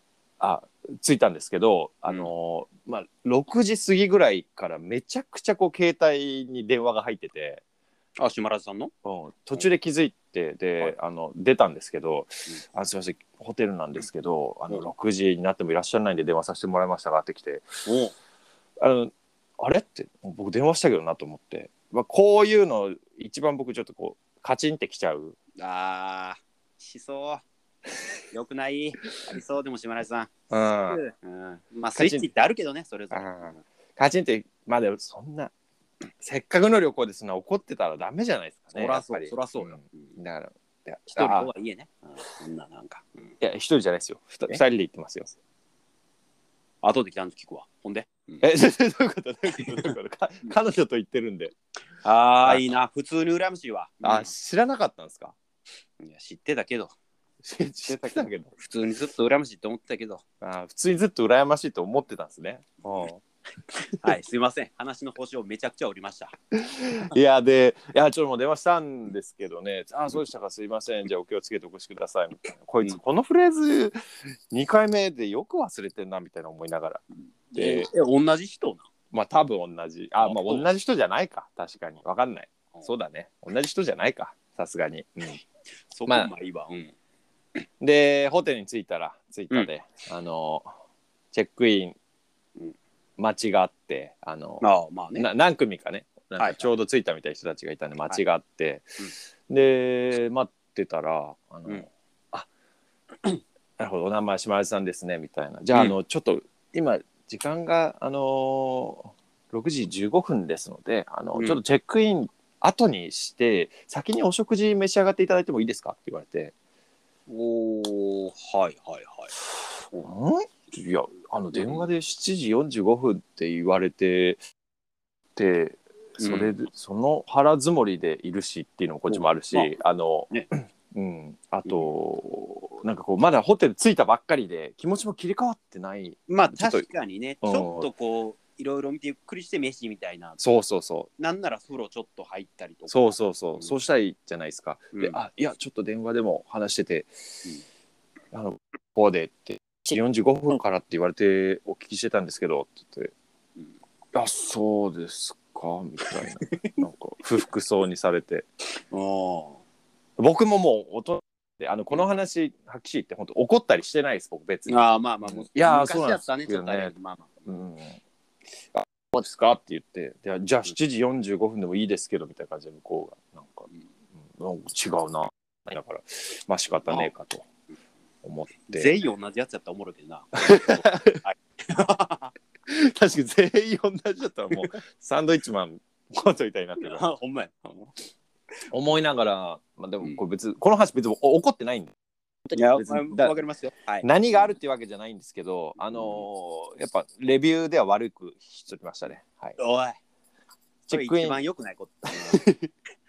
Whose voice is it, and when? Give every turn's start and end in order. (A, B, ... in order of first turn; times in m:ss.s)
0:00.4-0:07.6 A
0:08.2-0:08.9 B
0:09.0-0:17.6 A
0:17.8-0:18.1 B
0:18.8-0:25.4 A
0:25.6-0:27.4 B
0:28.3-0:33.6 B
0:30.5-0:31.0 A
0:31.9-0:32.3 A
0:33.1-0:35.5 A
0:36.2-0:41.5 A
0:38.7-0:40.2 B
0:41.1-0:43.3 B
0:43.4-0:45.3 A
0:46.8-0:48.4 B
0:48.4-0:51.5 A
0:49.6-0:50.5 B
0:52.0-0:54.3 B
0:54.0-0:55.3 A
0:56.0-0:56.9 B
0:57.4-0:58.5 A
0:57.9-1:00.2 B
1:00.4-1:04.0 A
1:04.0-1:06.3 B
1:06.5-1:14.0 A
1:14.5-1:17.0 A
1:17.5-1:18.8 B
1:17.5-1:17.9 A
1:19.1-1:25.4 A
1:20.2-1:20.7 B
1:25.9-1:26.9 B
1:26.1-1:26.3 A
1:27.8-1:30.7 A
1:31.3-1:32.0 A
1:33.2-1:42.5 A
1:34.6-1:35.3 B
1:36.4-1:36.7 B
1:43.8-1:56.5 A
1:51.3-1:51.6 B
1:57.3-1:59.3 B
2:00.0-2:04.4 A
2:01.5-2:01.9 B
2:05.4-2:16.9 A
2:06.2-2:06.5 B
2:09.1-2:09.7 B
2:16.3-2:20.4 B
2:17.4-2:17.9 A
2:20.4-2:21.1 A
2:21.2-2:23.7 B
2:22.9-2:27.4 A
2:24.9-2:25.2 B
2:28.3-2:33.1 A
2:34.1-2:38.4 A
2:36.0-2:36.8 B
2:38.9-2:39.6 B
2:40.2-2:44.8 A
2:44.7-2:47.4 B
2:45.4-2:46.9 A
2:47.4-2:48.0 A
2:48.7-2:53.7 A
2:54.2-2:57.5 A
2:58.2-2:58.9 A
2:58.7-3:02.3 B
3:00.4-3:01.2 A
3:02.7-3:07.0 A
3:06.8-3:07.9 B
3:08.7-3:11.9 A
3:12.4-3:13.3 A
3:12.5-3:14.1 B
3:14.0-3:19.6 A
3:15.9-3:16.2 B
3:19.6-3:20.0 B
3:20.9-3:21.4 A
3:20.9-3:22.4 B
3:22.2-3:22.6 A